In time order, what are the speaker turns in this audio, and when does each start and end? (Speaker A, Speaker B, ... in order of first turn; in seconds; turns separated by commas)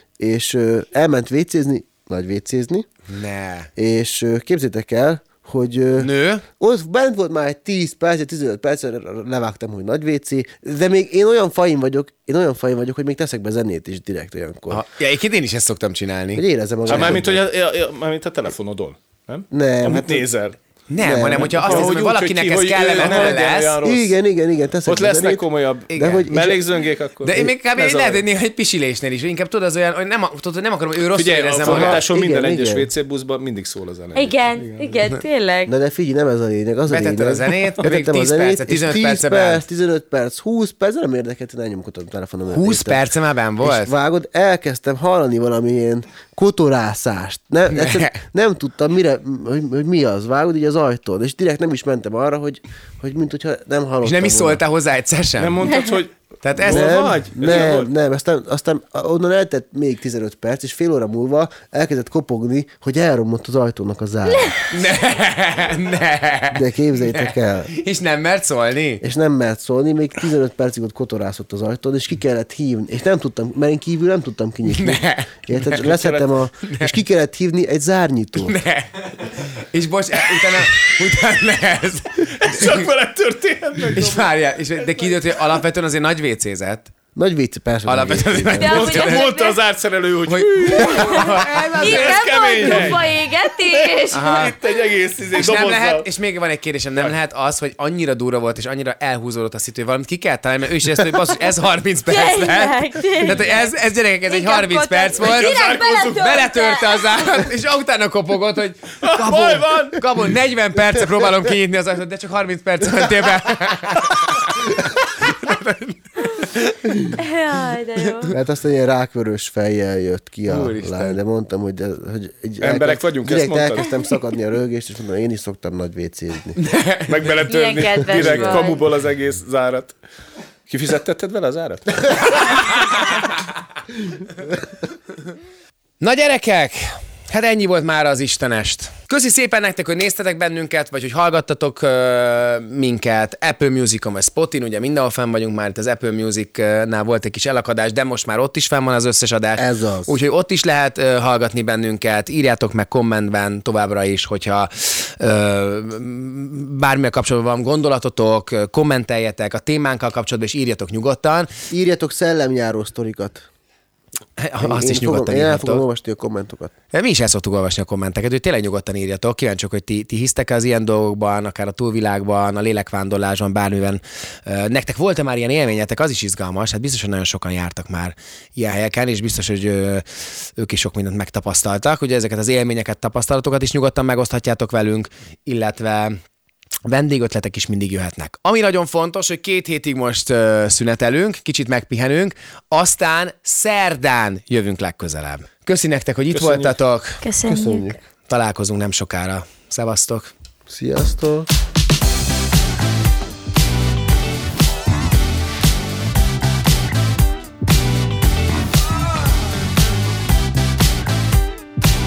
Speaker A: 0.2-2.9, Speaker B: 3.1-3.7, Speaker A: 3.8-14.8, Speaker B: 6.0-6.4, Speaker B: 14.7-17.4, Speaker A: 16.4-17.4, Speaker C: 16.9-20.6, Speaker A: 19.5-20.3, Speaker B: 20.9-23.8, Speaker A: 21.0-21.9, Speaker C: 21.1-24.2, Speaker A: 23.0-26.6, Speaker C: 24.9-28.3, Speaker B: 25.9-26.3, Speaker B: 27.2-32.0, Speaker C: 31.1-35.0, Speaker A: 31.6-32.9, Speaker D: 34.1-35.7, Speaker A: 35.7-43.0, Speaker B: 36.9-39.6, Speaker B: 42.5-43.9, Speaker A: 43.6-54.6, Speaker B: 47.7-48.2, Speaker B: 54.0-55.6, Speaker C: 55.4-57.9, Speaker B: 56.4-57.0, Speaker A: 56.7-64.6, Speaker D: 64.3-64.6, Speaker B: 64.7-69.0, Speaker A: 66.5-67.7, Speaker A: 69.0-78.6, Speaker B: 74.7-75.8, Speaker C: 75.7-76.3, Speaker B: 76.6-77.0, Speaker B: 78.4-82.9, Speaker C: 82.3-85.6, Speaker B: 83.9-86.9, Speaker A: 87.2-88.8, Speaker B: 87.8-89.3, Speaker D: 88.6-89.6, Speaker C: 88.6-96.1, Speaker B: 90.3-93.0, Speaker D: 90.7-94.4, Speaker B: 94.1-94.5, Speaker B: 95.3-117.2, Speaker D: 102.1-103.7, Speaker D: 104.3-107.5, Speaker C: 105.2-106.2, Speaker C: 109.0-110.3, Speaker D: 117.2-118.3, Speaker B: 118.0-118.3, Speaker A: 118.3-126.6, Speaker B: 120.5-121.2, Speaker C: 122.6-124.0, Speaker B: 126.6-127.5, Speaker C: 127.1-130.0, Speaker D: 127.5-128.8, Speaker B: 128.0-128.7, Speaker C: 130.7-132.8, Speaker B: 136.0-161.5, Speaker A: 149.6-150.1, Speaker A: 161.7-163.5, Speaker B: 164.4-165.9, Speaker A: 164.6-166.7, Speaker B: 166.9-186.2, Speaker B: 186.8-197.2, Speaker C: 196.3-196.8, Speaker D: 197.2-198.0, Speaker A: 197.5-198.0, Speaker B: 198.3-200.3, Speaker A: 200.7-201.5